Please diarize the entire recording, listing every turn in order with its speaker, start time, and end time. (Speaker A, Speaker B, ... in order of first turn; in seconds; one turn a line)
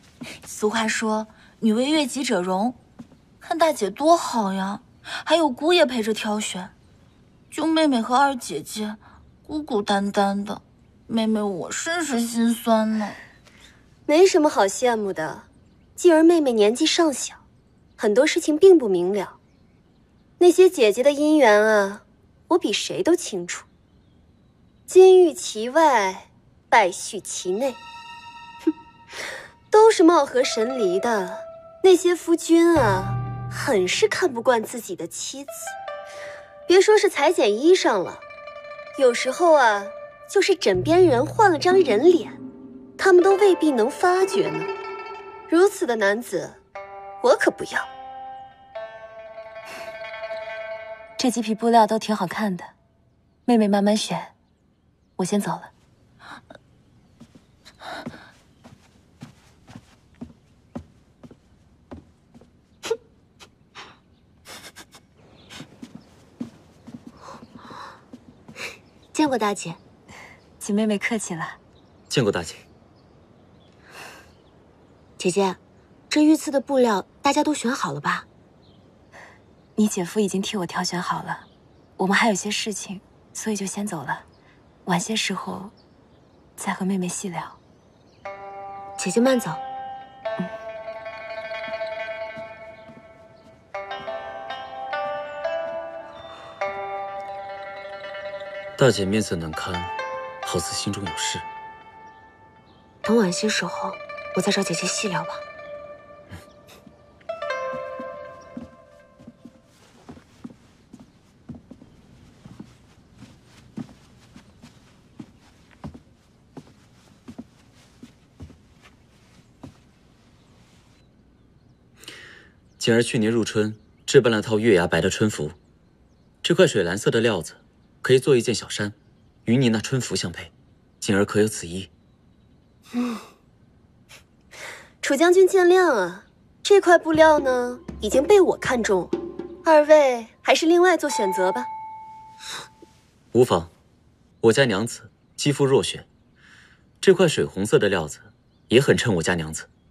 Speaker A: 0.5-2.8
Speaker A: 3.4-6.7
Speaker A: 7.5-13.2
Speaker B: 14.1-15.4
Speaker B: 16.0-17.4
Speaker B: 18.0-19.4
Speaker B: 20.4-23.6
Speaker B: 24.9-27.8
Speaker B: 29.7-35.7
Speaker B: 36.7-38.2
Speaker B: 38.9-42.4
Speaker B: 43.0-44.7
Speaker B: 45.5-46.6
Speaker B: 47.2-47.9
Speaker C: 51.2-52.7
Speaker C: 53.5-54.3
Speaker C: 55.2-55.7
Speaker D: 69.1-69.8
Speaker C: 70.6-71.6
Speaker E: 72.1-72.6
Speaker D: 75.2-78.3
Speaker C: 79.8-81.5
Speaker C: 82.0-84.2
Speaker C: 84.8-85.7
Speaker C: 86.6-87.6
Speaker D: 89.0-89.6
Speaker E: 98.8-101.5
Speaker D: 103.0-105.4
Speaker E: 122.8-125.5
Speaker E: 126.4-128.9
Speaker E: 129.4-131.9
Speaker B: 135.0-141.7
Speaker E: 143.3-143.7
Speaker E: 144.4-146.1
Speaker E: 147.0-149.7